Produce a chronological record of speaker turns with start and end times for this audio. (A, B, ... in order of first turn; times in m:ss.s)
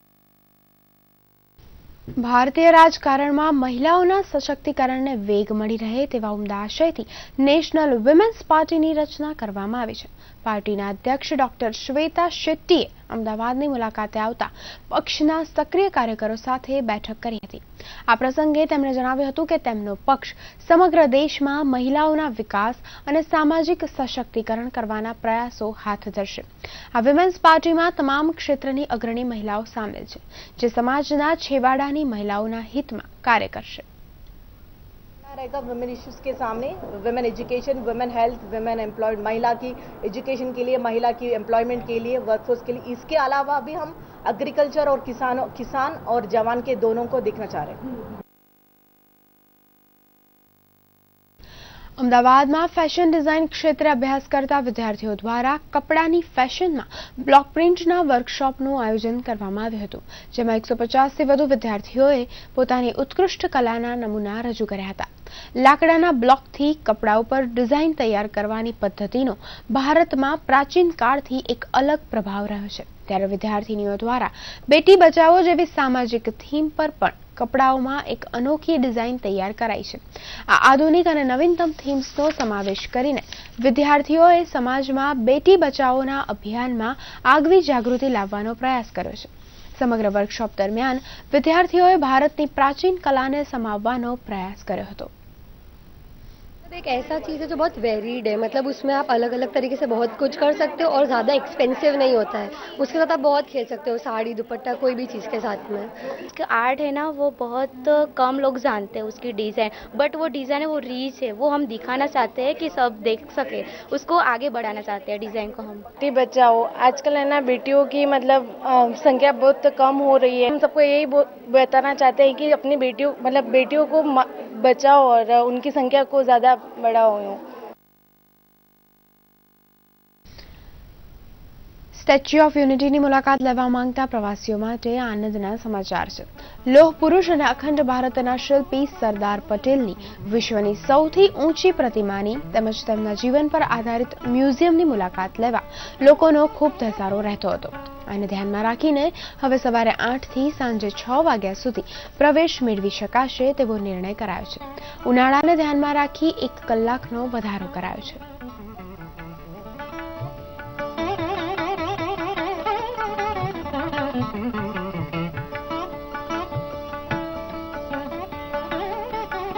0:02.2-0:33.8 A
0:35.2-0:47.8 B
0:52.0-1:35.1 A
1:36.7-1:45.9 C
1:46.3-1:55.8 D
1:56.0-2:07.4 E
2:11.9-2:38.2 A